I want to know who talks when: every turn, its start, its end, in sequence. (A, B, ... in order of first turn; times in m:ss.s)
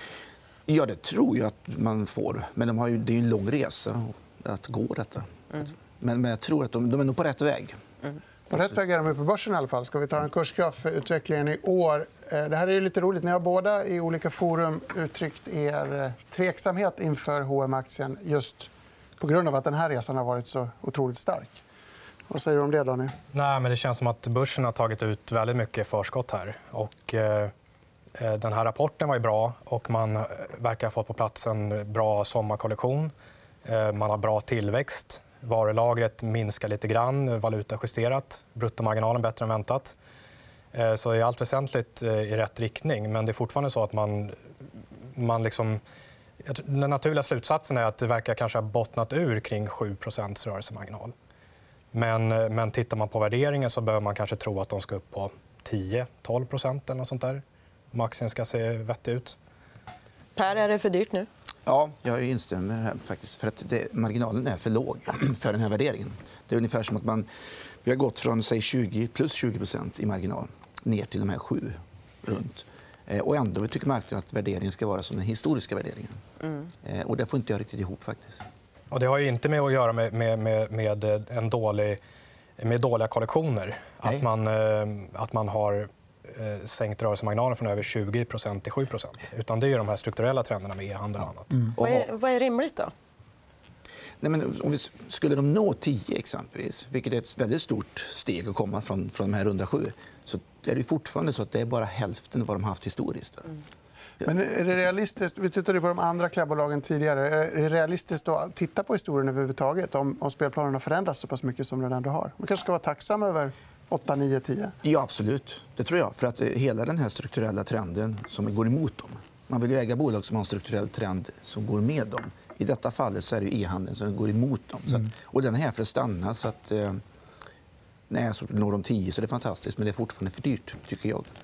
0:00.7-0:07.8 A
0:08.5-0:21.6 B
0:22.3-0:23.2 B
0:23.3-0:27.5 C
0:28.2-0:33.1 C
0:33.6-0:40.0 C
0:40.7-0:44.4 C
0:45.2-0:45.8 C
0:46.4-0:51.1 C
0:51.9-0:59.4 C
1:00.4-1:01.3 D
1:01.7-1:07.3 A
1:07.8-1:16.2 A
1:16.8-1:18.5 A
1:18.9-1:22.0 C
1:22.6-1:31.7 C
1:31.8-1:32.9 D
1:34.2-1:43.6 A
1:44.2-1:54.8 B
1:54.8-2:07.0 A
2:08.1-2:11.3 A